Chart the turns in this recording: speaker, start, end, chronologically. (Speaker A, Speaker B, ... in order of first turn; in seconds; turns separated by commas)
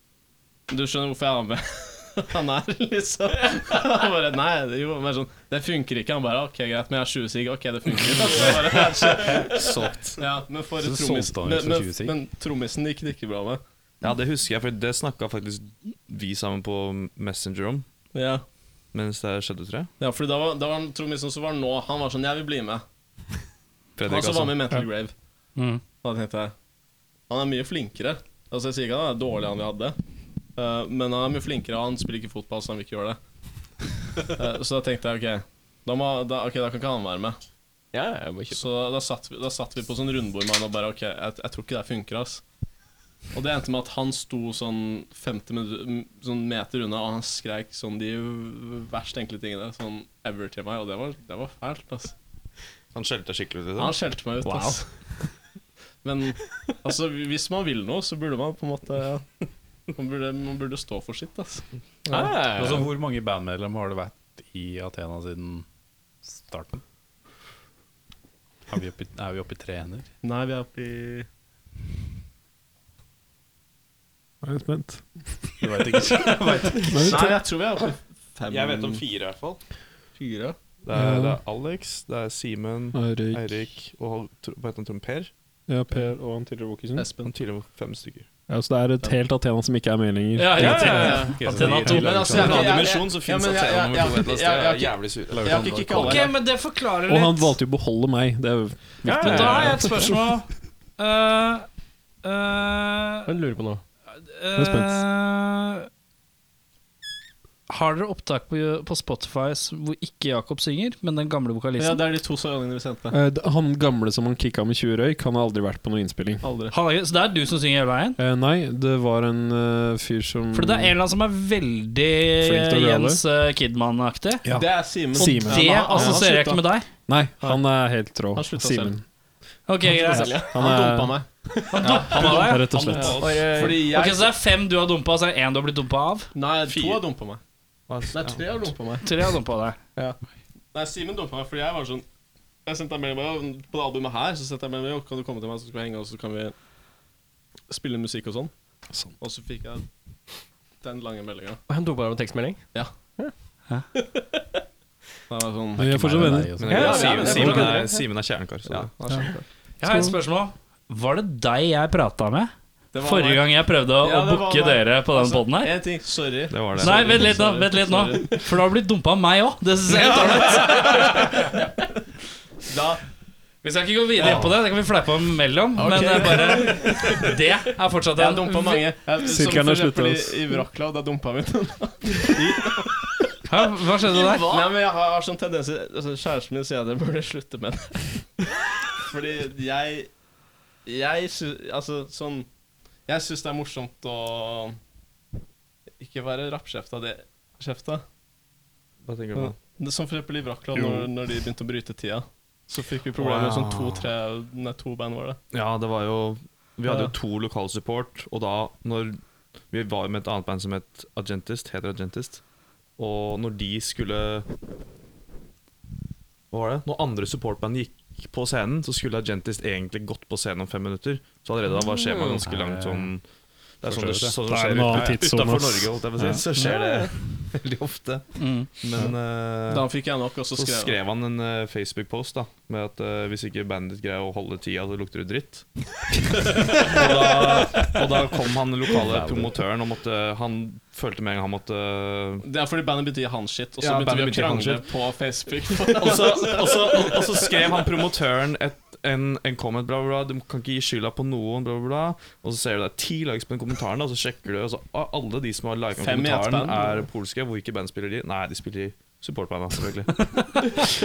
Speaker A: 0.7-13.6, Speaker B: 9.4-10.2, Speaker C: 10.8-12.2, Speaker B: 14.0-17.9, Speaker A: 18.1-18.4, Speaker B: 18.9-19.9, Speaker A: 20.0-22.8, Speaker B: 24.0-24.7, Speaker A: 24.1-25.1, Speaker D: 25.6-25.8, Speaker A: 26.0-26.5, Speaker A: 27.3-30.0, Speaker A: 30.6-33.2, Speaker A: 34.3-37.4, Speaker E: 37.9-38.6, Speaker A: 38.5-42.4, Speaker A: 43.3-52.1, Speaker B: 52.9-54.0, Speaker A: 53.8-54.9, Speaker E: 54.5-54.8, Speaker A: 56.0-59.3, Speaker A: 59.9-62.3, Speaker E: 62.1-62.9, Speaker C: 62.5-65.7, Speaker C: 66.2-66.8, Speaker C: 68.7-70.1, Speaker A: 70.2-71.3, Speaker F: 74.4-75.5, Speaker C: 75.6-77.2, Speaker F: 76.8-77.4, Speaker A: 77.0-79.0, Speaker B: 78.5-79.6, Speaker A: 80.2-80.6, Speaker B: 80.8-85.3, Speaker F: 80.9-81.4, Speaker F: 82.9-83.6, Speaker F: 85.7-87.1, Speaker A: 87.0-87.3, Speaker B: 87.2-88.3, Speaker F: 88.5-91.4, Speaker D: 90.4-92.6, Speaker A: 90.6-96.3, Speaker E: 90.6-91.1, Speaker C: 90.7-92.8, Speaker B: 92.3-96.0, Speaker C: 95.3-96.2, Speaker D: 96.0-97.6, Speaker F: 97.0-100.3, Speaker E: 99.0-99.8, Speaker D: 99.1-101.7, Speaker D: 102.2-103.3, Speaker E: 103.3-103.8, Speaker D: 104.2-105.9, Speaker F: 104.6-105.0, Speaker D: 107.7-112.0, Speaker A: 111.8-113.1, Speaker F: 113.1-116.4, Speaker A: 116.4-116.7, Speaker D: 116.7-118.2, Speaker F: 118.2-121.0, Speaker D: 120.5-124.5, Speaker F: 122.4-123.2, Speaker F: 124.4-126.2, Speaker A: 124.5-126.6, Speaker D: 125.1-126.9, Speaker F: 127.1-129.0, Speaker A: 128.3-128.9, Speaker D: 129.7-130.5, Speaker F: 129.9-131.2, Speaker E: 130.0-130.6, Speaker A: 130.5-131.3, Speaker D: 131.7-132.9, Speaker A: 131.8-132.4, Speaker B: 131.8-133.7, Speaker F: 132.1-133.2, Speaker E: 133.1-133.9, Speaker A: 133.4-134.3, Speaker D: 133.8-136.3, Speaker A: 136.3-137.4, Speaker B: 136.7-137.0, Speaker B: 137.9-138.7, Speaker A: 138.1-139.1, Speaker D: 139.0-139.8, Speaker A: 140.7-142.1, Speaker A: 142.7-146.5, Speaker A: 147.7-148.5, Speaker A: 149.2-149.9, Speaker A: 150.8-151.6, Speaker E: 151.7-153.3, Speaker A: 155.3-158.0, Speaker F: 155.8-156.8, Speaker C: 155.8-157.2, Speaker B: 156.5-158.9, Speaker E: 156.7-158.0, Speaker A: 158.7-159.4, Speaker D: 159.8-165.8, Speaker F: 159.8-160.1, Speaker A: 162.9-168.5, Speaker B: 166.5-167.4, Speaker D: 166.8-171.4, Speaker B: 169.9-170.7, Speaker A: 170.4-171.2, Speaker A: 172.7-173.0, Speaker D: 173.6-178.8, Speaker A: 174.2-174.5, Speaker A: 175.8-177.2, Speaker A: 178.1-183.1, Speaker F: 179.2-180.6, Speaker D: 183.5-184.7, Speaker A: 184.1-190.1, Speaker A: 190.9-192.5, Speaker A: 193.1-194.8, Speaker A: 196.0-198.0, Speaker B: 199.1-199.6, Speaker A: 199.3-205.4, Speaker F: 200.7-201.1, Speaker B: 203.2-204.1, Speaker B: 205.5-209.2, Speaker B: 209.7-212.4, Speaker B: 213.0-214.5, Speaker B: 216.5-223.2, Speaker C: 222.1-223.2, Speaker B: 223.8-229.9, Speaker C: 223.8-225.4, Speaker F: 224.5-226.3, Speaker E: 226.7-227.1, Speaker D: 228.4-228.7, Speaker A: 229.7-231.0, Speaker B: 230.6-235.7, Speaker B: 236.7-242.4, Speaker C: 238.9-239.6, Speaker A: 242.4-247.5, Speaker B: 243.8-244.9, Speaker B: 245.9-260.8, Speaker A: 256.0-257.0